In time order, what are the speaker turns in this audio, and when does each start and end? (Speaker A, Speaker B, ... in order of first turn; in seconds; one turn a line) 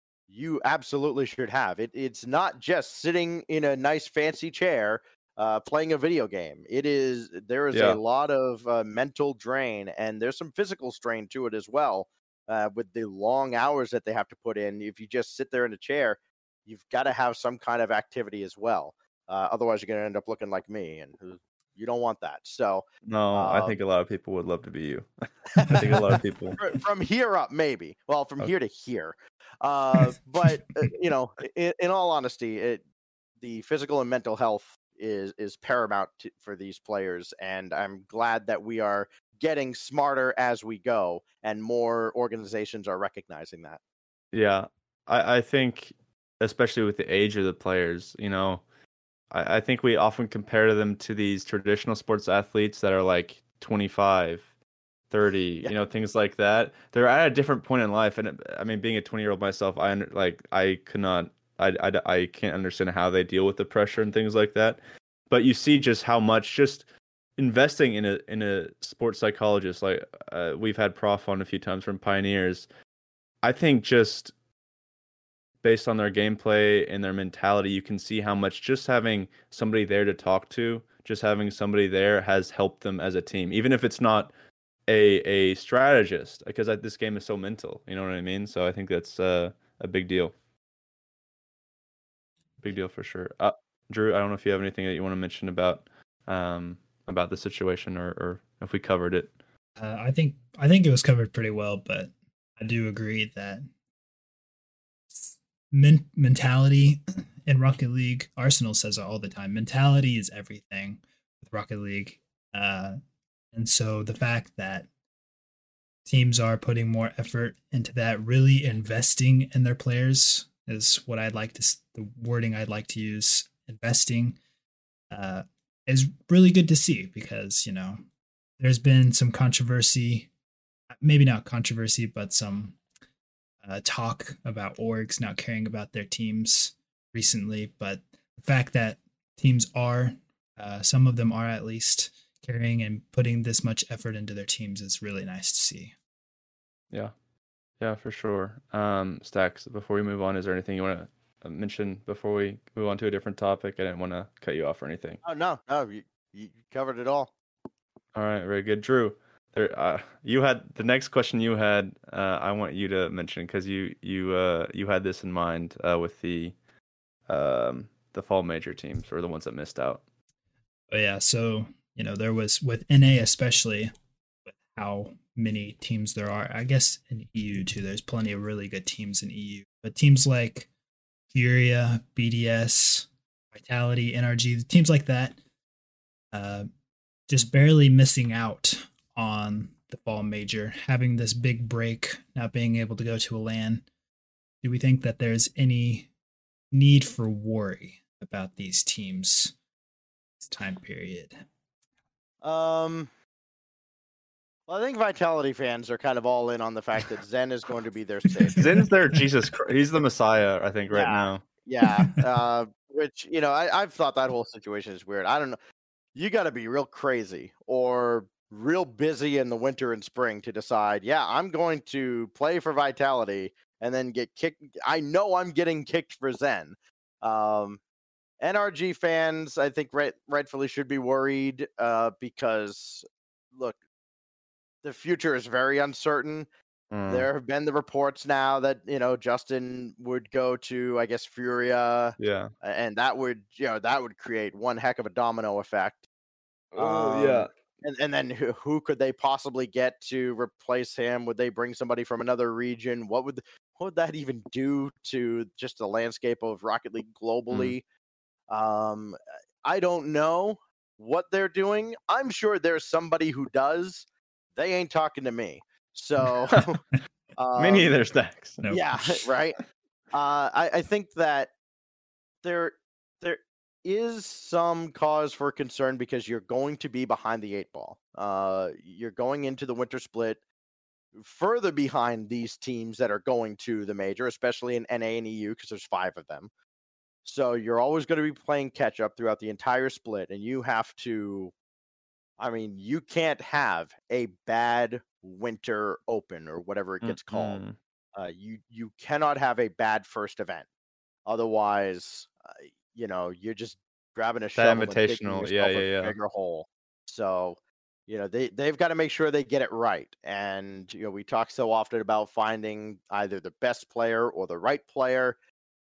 Speaker A: 0.3-23.7
Speaker B: 7.7-8.0
Speaker B: 23.1-25.1
Speaker A: 25.6-26.0
Speaker B: 25.6-26.6
Speaker A: 26.6-32.8
Speaker A: 33.4-43.8
Speaker B: 44.3-48.6
Speaker B: 49.3-54.5
Speaker B: 55.1-64.8
Speaker B: 65.3-66.8
Speaker B: 67.4-72.7
Speaker B: 73.4-74.3
Speaker B: 75.6-84.3
Speaker B: 84.9-90.3
Speaker B: 92.6-99.3
Speaker C: 99.8-103.6
Speaker C: 105.1-113.0
Speaker C: 113.5-114.9
Speaker C: 116.0-124.4
Speaker C: 125.1-128.0
Speaker C: 128.6-130.3
Speaker C: 131.0-132.8
Speaker C: 133.6-145.9
Speaker B: 147.8-155.2
Speaker A: 155.2-157.3
Speaker B: 158.1-166.5
Speaker B: 167.3-170.0
Speaker C: 170.9-173.9
Speaker C: 174.5-180.7
Speaker C: 181.3-185.4
Speaker C: 186.3-186.7
Speaker C: 187.3-193.8
Speaker C: 194.6-196.1
Speaker C: 196.7-199.5
Speaker C: 200.4-201.4
Speaker A: 202.4-203.1
Speaker A: 204.7-208.6
Speaker C: 208.4-209.2
Speaker B: 208.6-211.4
Speaker A: 210.9-215.6
Speaker C: 211.8-212.2
Speaker A: 216.1-227.8
Speaker A: 228.4-233.8
Speaker A: 234.8-236.5
Speaker B: 236.9-237.3
Speaker A: 237.1-246.1
Speaker B: 242.2-242.5
Speaker B: 246.7-247.5
Speaker A: 246.8-257.8
Speaker A: 258.5-266.8
Speaker A: 267.4-267.9
Speaker B: 267.6-268.6
Speaker C: 268.6-269.2
Speaker A: 268.7-269.6
Speaker A: 270.1-271.5
Speaker A: 272.4-280.4
Speaker A: 281.1-286.5
Speaker A: 287.2-291.5
Speaker A: 292.4-297.6
Speaker B: 297.0-297.8
Speaker A: 298.1-300.7
Speaker A: 301.2-315.4
Speaker B: 304.6-306.1